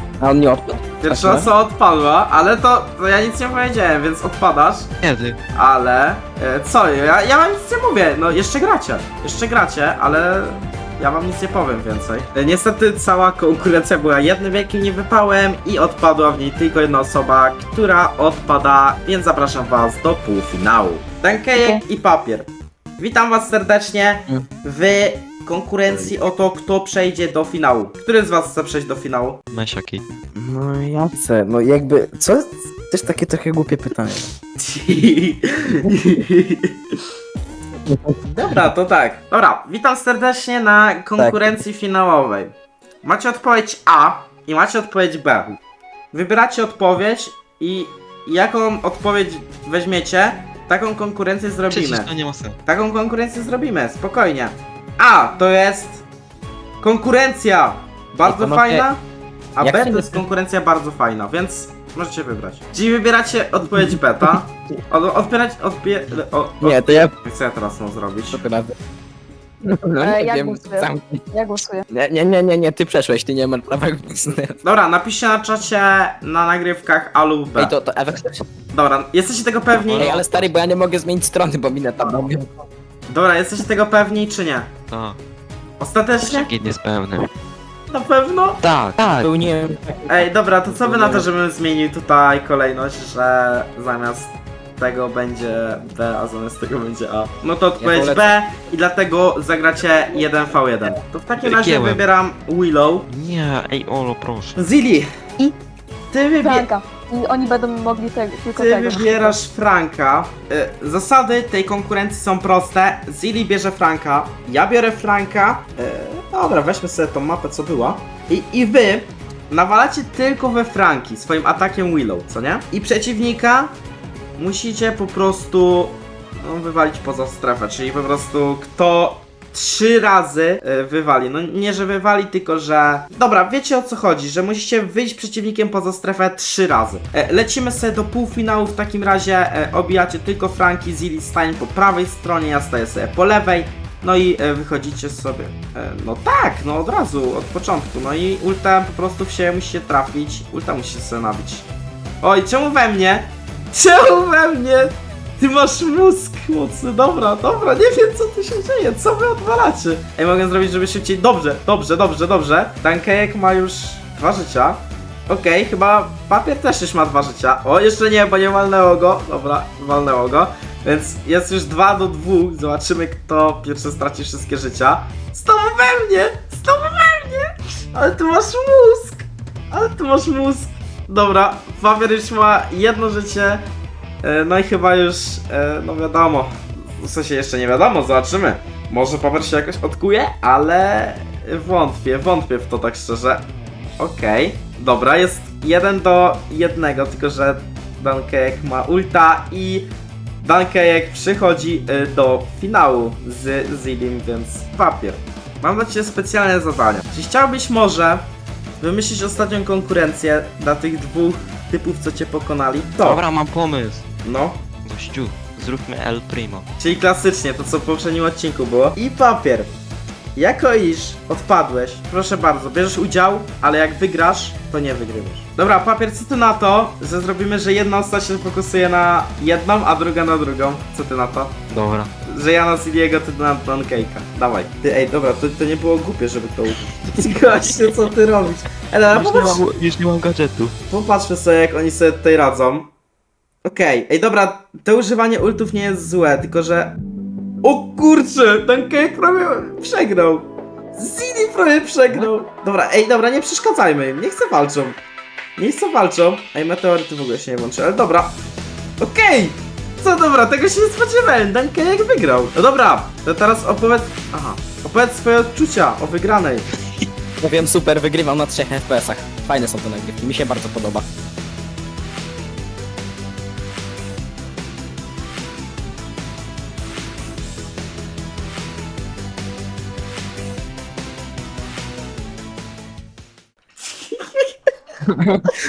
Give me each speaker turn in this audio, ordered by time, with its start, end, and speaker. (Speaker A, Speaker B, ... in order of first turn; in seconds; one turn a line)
Speaker A: 0.2-1.5
Speaker B: 1.0-4.9
Speaker C: 5.0-5.4
Speaker B: 5.5-29.4
Speaker D: 21.6-21.8
Speaker C: 29.5-30.0
Speaker A: 30.4-34.3
Speaker B: 34.6-36.8
Speaker A: 37.9-38.5
Speaker B: 38.4-42.5
Speaker A: 41.2-41.5
Speaker B: 43.0-45.6
Speaker B: 46.1-52.1
Speaker C: 51.7-52.6
Speaker B: 52.6-56.0
Speaker B: 56.8-59.0
Speaker A: 58.2-58.9
Speaker B: 59.5-68.4
Speaker A: 59.6-60.2
Speaker A: 63.8-64.4
Speaker A: 66.6-67.1
Speaker A: 68.3-68.8
Speaker A: 69.6-71.3
Speaker D: 70.0-71.8
Speaker A: 71.9-74.6
Speaker B: 74.6-77.8
Speaker A: 77.6-78.5
Speaker B: 78.7-80.3
Speaker C: 79.9-80.4
Speaker A: 79.9-82.5
Speaker B: 83.1-84.7
Speaker C: 84.9-85.2
Speaker B: 85.8-86.5
Speaker C: 86.2-87.3
Speaker B: 87.9-88.6
Speaker C: 88.6-89.4
Speaker A: 89.0-91.3
Speaker B: 90.1-103.1
Speaker A: 97.8-98.3
Speaker C: 101.4-102.0
Speaker C: 103.1-104.6
Speaker B: 104.6-105.1
Speaker B: 106.1-106.7
Speaker D: 106.4-109.4
Speaker B: 108.5-123.7
Speaker B: 124.4-151.7
Speaker B: 152.2-183.6
Speaker B: 184.2-193.4
Speaker B: 194.0-199.9
Speaker B: 200.4-208.2
Speaker B: 208.8-213.2
Speaker C: 213.0-214.0
Speaker B: 214.2-214.6
Speaker C: 214.9-216.7
Speaker B: 216.8-219.7
Speaker B: 220.4-231.6
Speaker C: 231.7-232.1
Speaker B: 232.3-239.7
Speaker C: 237.2-238.0
Speaker C: 239.1-240.7
Speaker B: 240.9-242.9
Speaker B: 243.7-247.0
Speaker B: 247.6-255.0
Speaker B: 255.6-258.3
Speaker B: 259.0-266.6
Speaker A: 267.4-271.1
Speaker A: 285.1-285.4